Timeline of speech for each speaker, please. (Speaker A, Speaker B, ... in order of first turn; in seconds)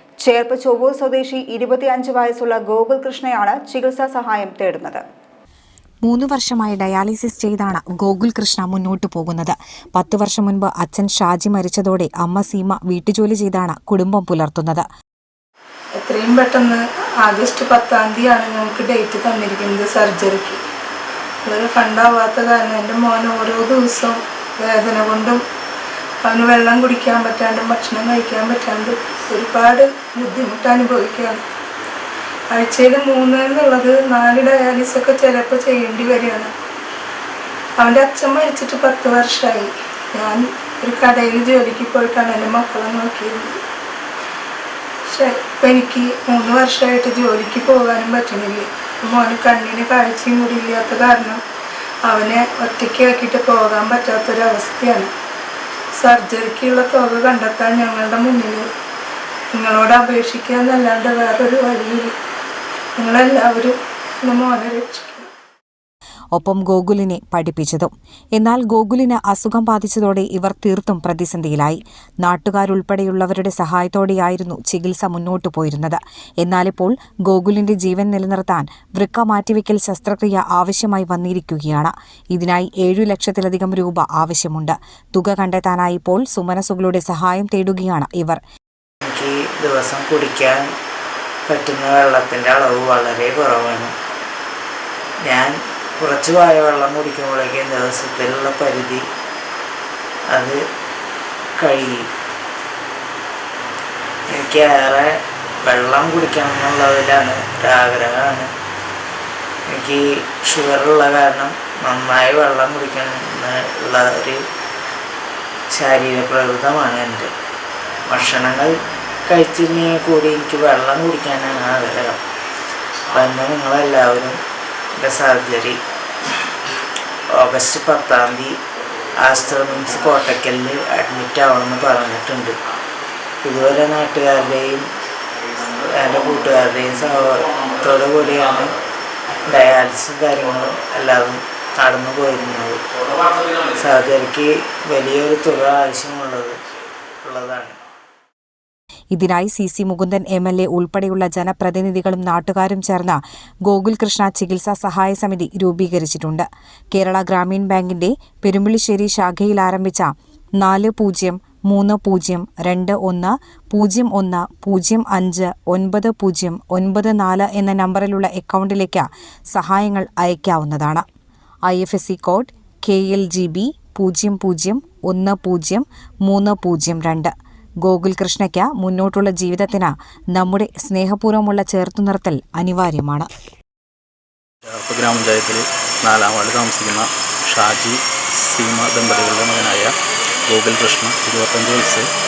Speaker A: 0.2-5.0
Speaker B: 6.0-14.8, 66.3-88.4, 149.1-160.1, 160.6-171.0, 171.7-177.3, 177.8-183.3
Speaker C: 16.0-20.6, 21.4-25.4, 26.2-31.4, 32.5-36.5, 37.8-43.6, 45.1-51.4, 52.0-55.1, 56.0-58.7, 59.5-62.1, 63.0-65.3
Speaker D: 89.0-90.7, 91.5-93.9, 95.2-99.0, 100.3-100.6, 101.6-102.1, 104.3-105.1, 105.6-108.5, 109.7-114.4, 115.7-117.3, 118.1-118.7, 119.2-122.2, 123.1-124.4, 125.0-125.8, 127.3-128.6, 129.2-132.5, 133.4-134.8, 135.8-138.7, 139.4-142.8, 143.8-146.6, 147.2-147.8
Speaker E: 137.5-138.3, 143.1-143.7, 184.6-189.9, 190.5-192.1